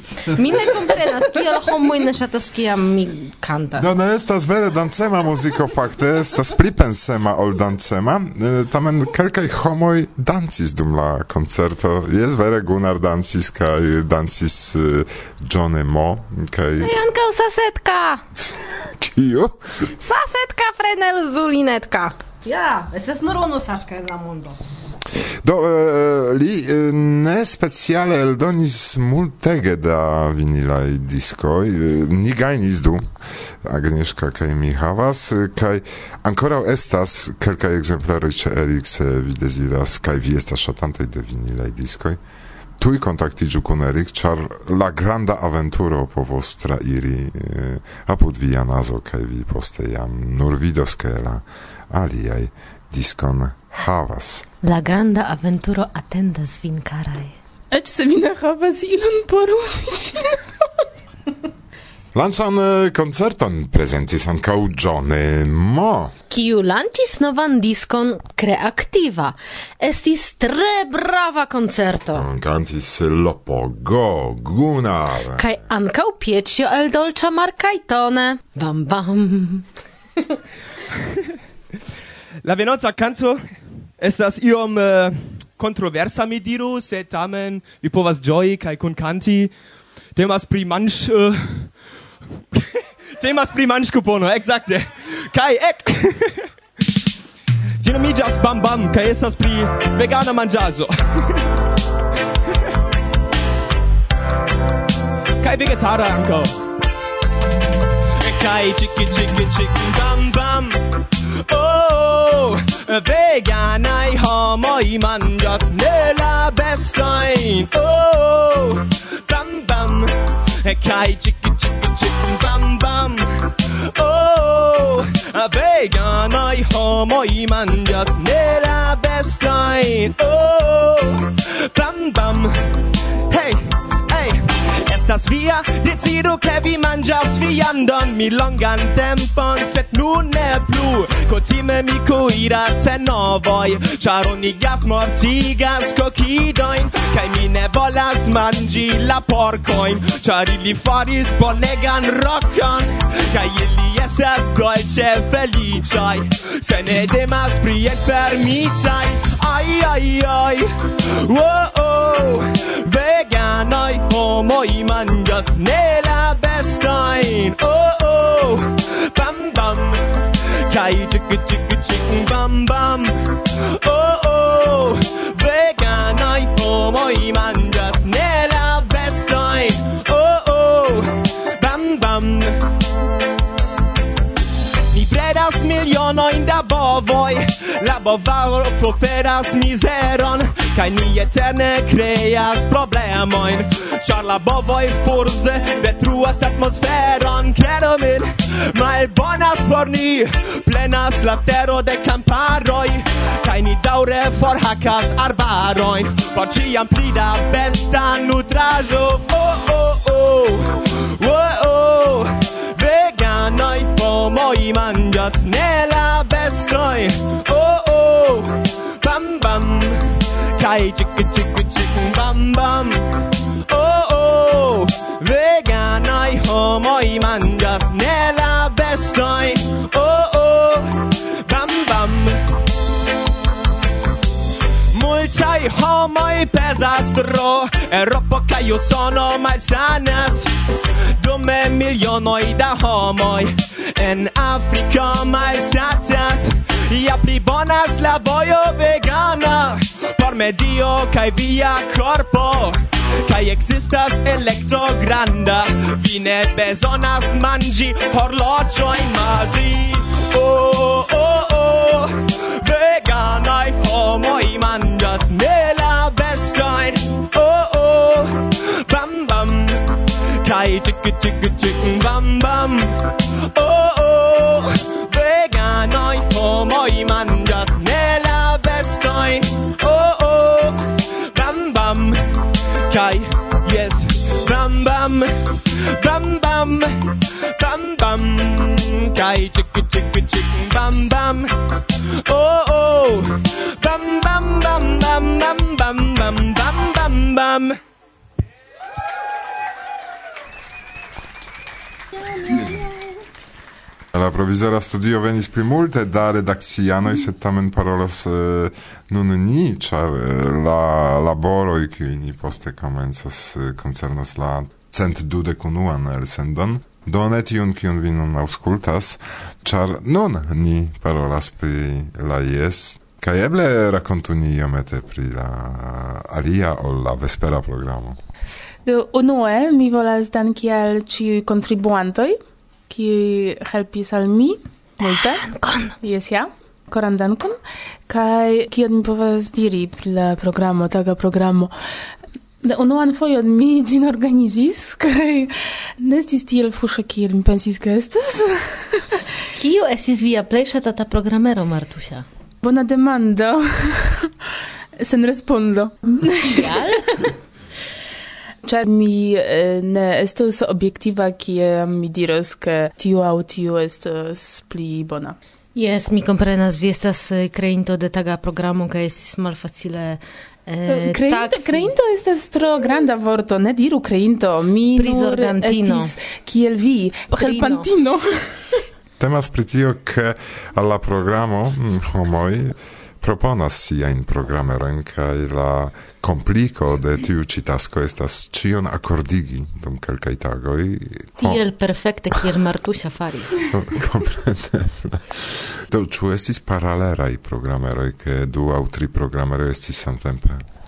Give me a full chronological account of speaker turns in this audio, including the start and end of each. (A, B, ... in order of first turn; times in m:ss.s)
0:00.3-0:03.8 A
0:03.8-0:16.9 B
0:16.8-0:18.2 A
0:18.4-0:19.7 B
0:20.0-0:24.6 A
0:25.4-0:42.2 B
0:42.8-0:54.5 B
0:54.6-0:57.3 A
0:57.7-1:00.4 C
1:02.1-1:06.1 B
1:06.3-1:12.2 A
1:12.1-1:15.4 B
1:15.4-1:19.7 A
1:22.4-1:23.4 D
1:24.0-1:29.5 D
1:30.1-1:31.7 D
1:33.2-1:36.4 D
1:37.8-1:41.4 D
1:45.4-1:46.5 D
1:48.2-1:50.8 D
1:51.4-3:02.6 D
3:04.9-3:43.0 D
3:43.7-3:52.5 D
3:54.9-4:00.5 D
4:01.2-4:42.4 D
4:42.9-4:51.5 D
4:52.2-4:57.8 D
5:02.4-5:02.9 B
5:04.1-5:28.2 B
5:28.8-5:35.4 C
5:35.0-5:35.9 A
5:36.0-5:37.6 C
5:38.1-5:41.7 C
5:42.6-5:49.2 C
5:49.6-5:52.2 A
5:52.6-5:54.3 C
5:55.0-5:56.8 C
5:56.6-5:57.3 A
5:58.6-6:05.4 C
6:05.7-6:11.9 A
6:10.9-6:18.8 C
6:14.9-6:16.1 A
6:17.4-6:17.9 A
6:19.2-6:31.6 B
6:31.4-6:33.5 A
6:33.7-6:40.6 B